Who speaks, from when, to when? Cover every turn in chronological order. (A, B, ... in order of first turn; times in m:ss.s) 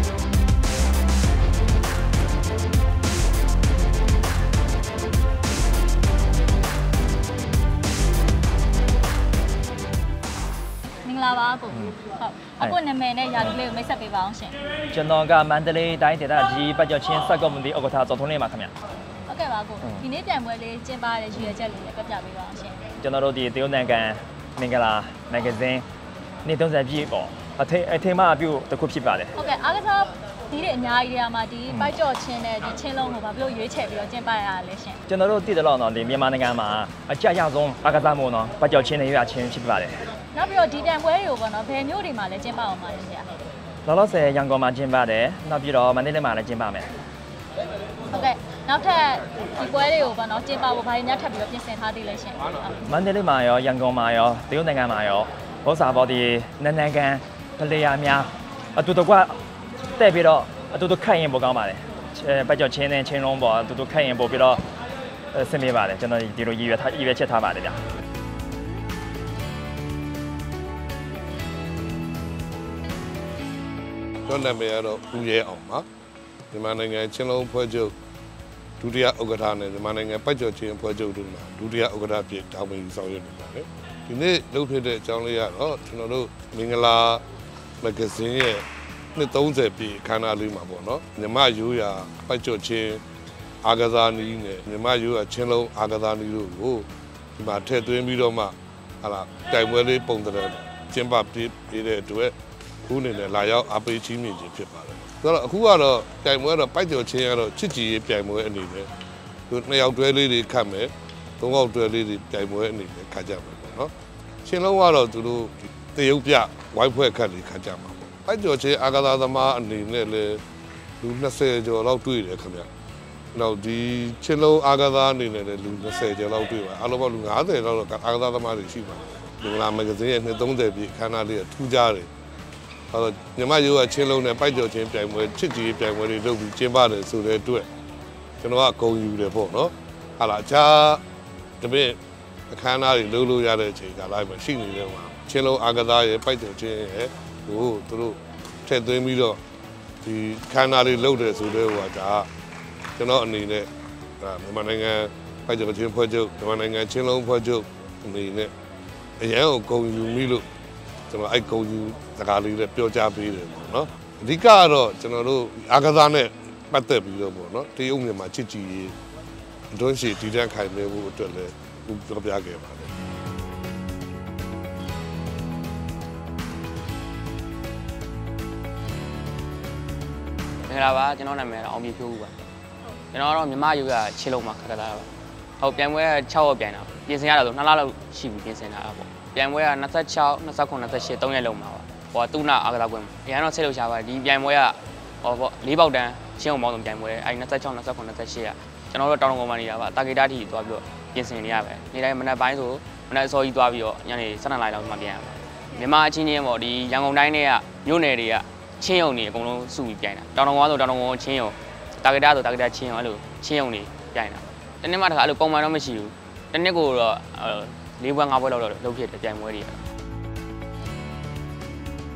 0:11.0-0:14.6 A
0:14.9-0:18.7 B
0:19.3-0:22.8 A
0:23.0-0:25.8 B
0:26.4-0:29.3 B
0:29.4-0:35.0 A
0:35.1-0:39.9 B
0:40.3-0:43.3 A
0:43.9-0:46.8 B
0:48.1-0:52.8 A
0:52.8-0:59.3 B
1:00.0-1:04.6 B
1:05.3-1:07.8 B
1:14.3-1:15.8 C
1:16.5-1:18.0 C
1:18.8-1:27.2 C
1:27.8-1:33.0 C
1:33.6-1:42.4 C
1:42.9-1:48.9 C
1:49.5-1:53.9 C
1:54.4-2:00.4 C
2:01.0-2:02.7 C
2:03.3-2:12.1 C
2:12.9-2:17.7 C
2:18.4-2:21.0 C
2:21.6-2:22.0 C
2:22.5-2:29.4 C
2:30.0-2:32.3 C
2:33.0-2:33.7 C
2:34.2-2:38.5 C
2:39.2-2:40.4 C
2:41.1-2:49.0 C
2:49.7-2:52.9 C
3:00.7-3:02.4 D
3:03.1-3:39.8 D